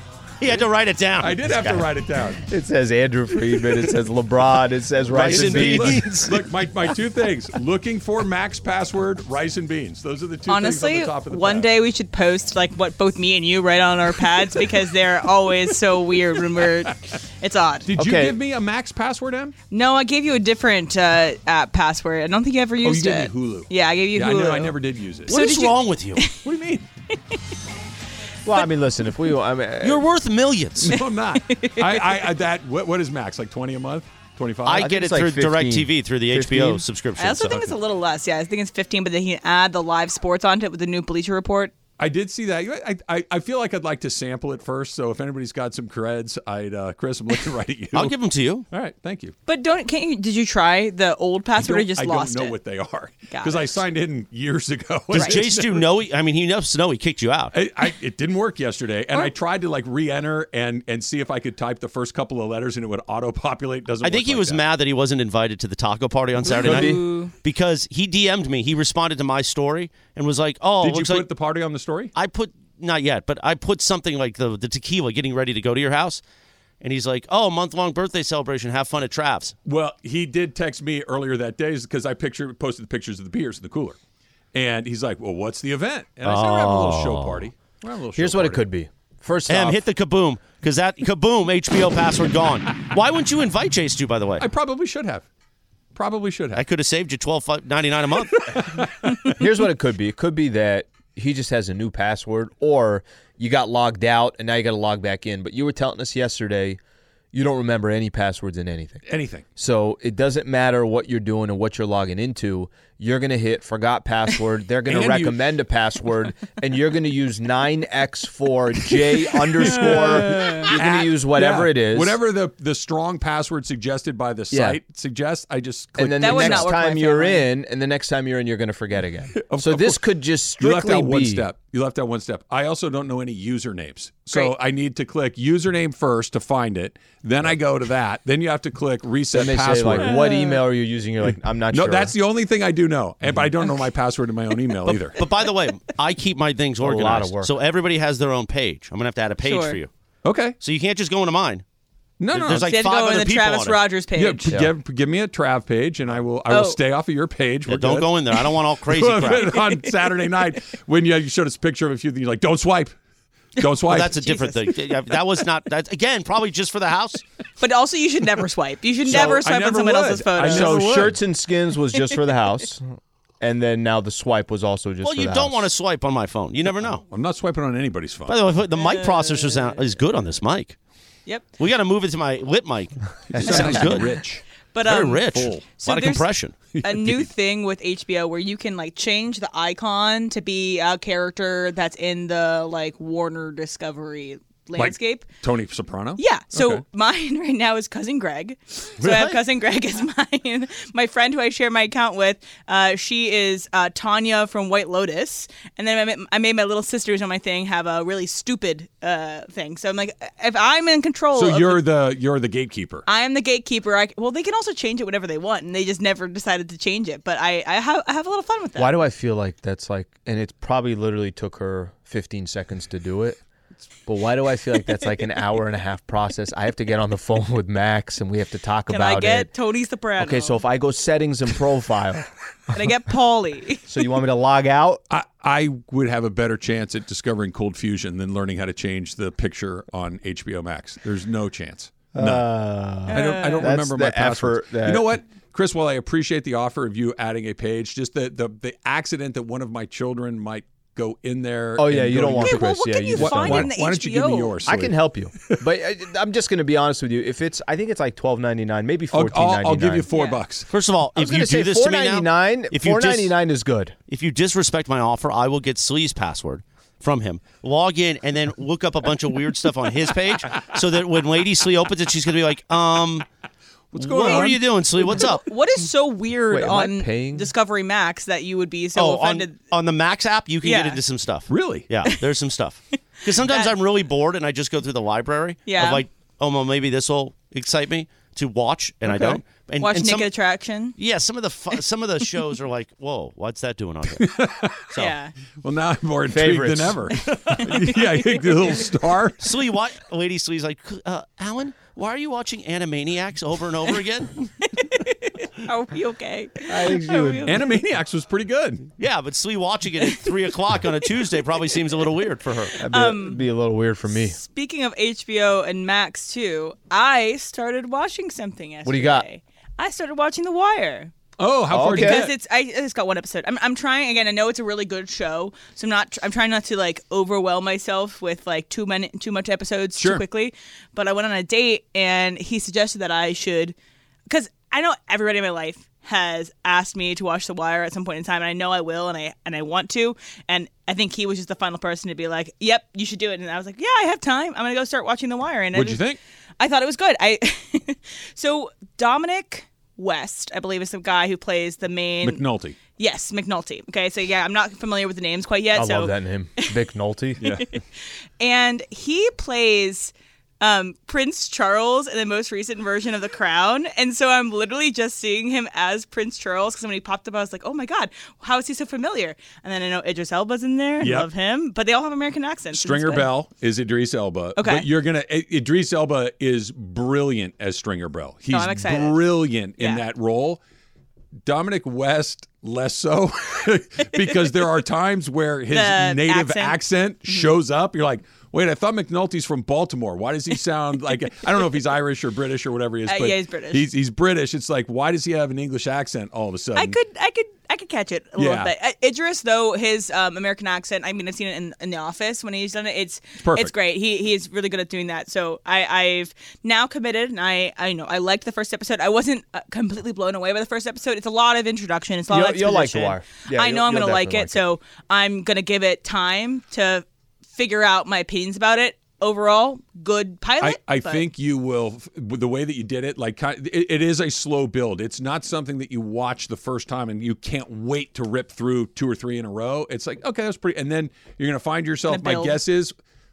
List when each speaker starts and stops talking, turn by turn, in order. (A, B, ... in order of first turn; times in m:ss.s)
0:00.4-0:01.4 A
0:01.2-0:02.4 B
0:01.5-0:01.9 C
0:02.4-0:06.3 C
0:03.5-0:03.9 B
0:05.1-0:06.4 A
0:05.1-0:11.7 B
0:10.5-0:17.9 D
0:17.9-0:19.6 B
0:18.0-0:18.4 C
0:19.7-0:24.7 D
0:22.8-0:25.4 B
0:25.3-0:26.2 A
0:25.3-0:26.4 D
0:26.4-0:26.8 B
0:28.4-0:30.1 C
0:29.8-0:31.0 A
0:30.8-0:34.9 B
0:31.4-0:32.2 D
0:34.7-0:37.7 A
0:34.7-0:36.8 C
0:37.2-0:41.7 D
0:42.0-0:48.2 B
0:47.9-0:48.7 A
0:48.7-0:49.3 B
0:49.5-0:52.6 D
0:51.6-0:55.9 B
0:53.3-0:53.8 D
0:55.1-0:57.5 A
0:55.1-0:55.4 D
0:57.5-1:04.6 B
1:04.0-1:11.3 A
1:06.4-1:07.3 D
1:06.6-1:07.0 C
1:10.8-1:12.1 B
1:12.2-1:16.2 A
1:16.8-1:19.5 A
1:19.6-1:24.0 B
1:24.5-1:28.6 B
1:26.2-1:27.5 A
1:28.2-1:29.8 C
1:29.5-1:34.5 A
1:34.4-1:35.3 B
1:36.0-1:36.6 B
1:36.5-1:38.4 A
1:38.6-1:39.4 B
1:39.4-1:46.8 C
1:47.3-1:49.0 C
1:49.1-1:49.4 B
1:49.6-2:02.2 C
1:54.9-1:55.4 B
1:59.7-2:06.7 B
1:59.8-2:00.7 D
2:04.5-2:04.8 C
2:06.0-2:11.5 C
2:06.2-2:07.4 D
2:09.4-2:10.1 B
2:10.6-2:20.2 B
2:19.3-2:22.2 C
2:20.1-2:20.5 D
2:21.7-2:25.2 B
2:24.9-2:29.9 A
2:26.8-2:27.5 C
2:29.4-2:29.8 D
2:30.2-2:30.6 B
2:30.6-2:31.6 A
2:32.2-2:32.7 B
2:32.3-2:33.8 A
2:32.6-2:34.6 D
2:34.2-2:43.0 B
2:36.5-2:36.8 D
2:37.7-2:39.6 A
2:39.6-2:39.9 D
2:43.6-2:44.2 B
2:43.9-2:47.2 A
2:44.1-2:44.6 D
2:47.6-2:51.0 D
2:49.0-2:51.2 B
2:50.4-2:52.8 C
2:53.4-2:55.7 C
2:55.0-2:57.0 A
2:57.0-2:58.4 B
2:58.3-3:00.8 A
2:58.7-2:59.8 D
3:01.6-3:04.1 A
3:03.3-3:05.7 B
3:04.7-3:06.3 D
3:04.8-3:06.6 A
3:06.7-3:07.3 B
3:06.8-3:15.3 D
3:14.8-3:16.8 B
3:16.2-3:31.9 D
3:19.0-3:19.4 B
3:31.3-3:33.0 B
3:33.1-3:38.9 D
3:38.8-3:43.4 C
3:44.1-3:49.5 C
3:48.9-3:50.6 D
3:50.2-3:52.3 C
3:52.7-3:53.8 D
3:53.9-3:55.0 C
3:55.1-4:02.5 B
4:02.2-4:05.1 C
4:03.1-4:03.7 D
4:03.1-4:15.0 B
4:11.8-4:13.7 C
4:12.4-4:14.6 D
4:14.7-4:20.1 C
4:19.1-4:20.7 B
4:20.1-4:20.4 D
4:20.7-4:23.4 A
4:21.2-4:24.0 C
4:24.1-4:33.3 A
4:33.9-4:34.6 B
4:34.0-4:35.4 A
4:34.2-4:39.6 D
4:36.5-4:37.5 C
4:39.0-4:50.3 A
4:40.6-4:41.0 D
4:41.5-4:41.9 B
4:43.3-4:43.8 D
4:45.7-4:46.0 D
4:49.4-4:51.0 D
4:51.0-4:54.3 A
4:54.1-4:54.8 B
4:55.0-4:55.3 D
4:55.6-4:59.4 B
4:56.3-4:57.1 C
4:57.5-4:58.5 D
4:59.4-5:04.4 A
5:04.6-5:07.6 D
5:06.7-5:07.6 C
5:07.4-5:08.9 B
5:09.0-5:12.8 A
5:12.8-5:14.4 C
5:12.9-5:13.4 D
5:14.2-5:21.1 D
5:18.8-5:19.2 C
5:21.4-5:22.3 B
5:21.7-5:22.3 C
5:21.8-5:33.8 D
5:34.3-5:46.0 D
5:45.7-5:46.2 B
5:46.6-5:52.4 D
5:52.2-5:52.8 B
5:53.0-5:56.7 D
5:55.7-5:57.4 C
5:57.4-5:57.7 B
5:57.5-5:57.8 D
5:58.4-6:13.3 D
6:11.0-6:11.3 B
6:12.7-6:20.6 B
6:14.6-6:14.9 D
6:18.5-6:19.2 D
6:19.8-6:20.0 D
6:21.5-6:37.0 B
6:25.7-6:27.5 D
6:33.1-6:33.9 D
6:36.8-7:01.3 D
6:38.4-6:38.7 B
6:43.4-6:43.7 B
6:52.3-6:54.6 C
7:00.6-7:12.9 B
7:12.1-7:12.6 D